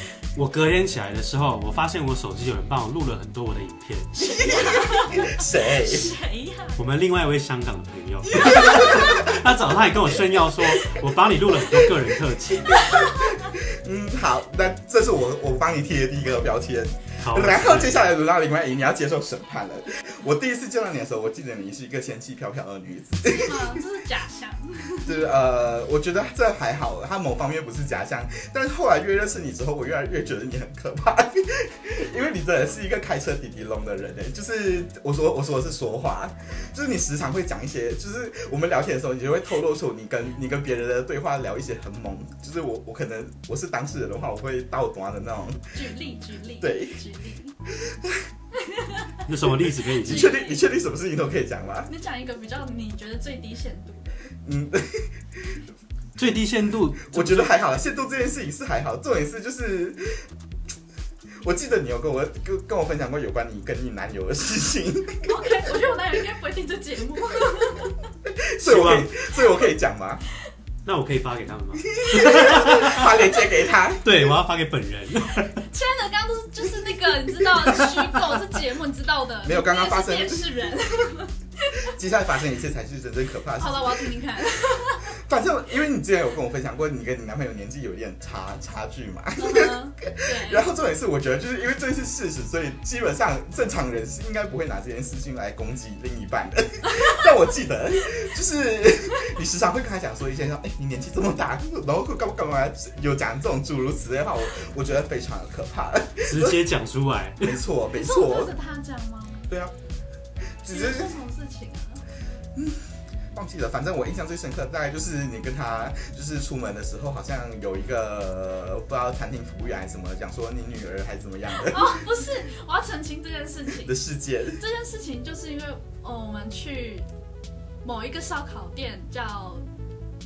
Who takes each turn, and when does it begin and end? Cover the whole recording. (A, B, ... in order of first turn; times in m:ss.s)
0:00.4-0:04.1 A
0:04.1-0:06.8 B
0:04.2-0:06.1 C
0:06.8-0:12.9 A
0:08.3-0:09.4 C
0:08.4-0:09.2 B
0:10.0-0:10.8 C
0:12.7-0:13.5 B
0:12.7-0:23.8 C
0:17.2-0:18.0 A
0:23.2-0:25.2 B
0:25.0-0:45.7 C
0:45.7-0:47.6 B
0:46.6-0:47.0 C
0:47.8-0:48.2 C
0:48.5-0:49.2 B
0:49.2-0:50.3 A
0:49.9-0:50.6 B
0:50.0-0:51.9 C
0:51.9-0:54.1 B
0:54.4-0:55.6 C
0:56.2-0:57.5 A
0:57.1-1:00.2 C
1:01.4-1:05.3 C
1:05.2-1:08.0 B
1:08.2-1:10.2 C
1:08.6-1:09.1 A
1:10.8-1:13.2 A
1:11.9-1:14.2 C
1:14.0-1:15.6 A
1:15.6-1:21.9 B
1:19.4-1:20.5 C
1:21.9-1:24.1 C
1:23.6-1:25.1 B
1:25.1-1:46.6 C
1:29.4-1:30.6 B
1:36.8-1:37.2 B
1:46.2-1:47.6 A
1:47.4-1:48.5 C
1:48.0-1:49.5 B
1:50.6-1:51.2 C
1:50.7-1:52.0 B
1:52.5-1:52.8 C
1:53.3-2:02.0 C
2:01.5-2:03.9 B
2:03.8-2:04.6 C
2:04.5-2:07.1 B
2:07.8-2:09.6 B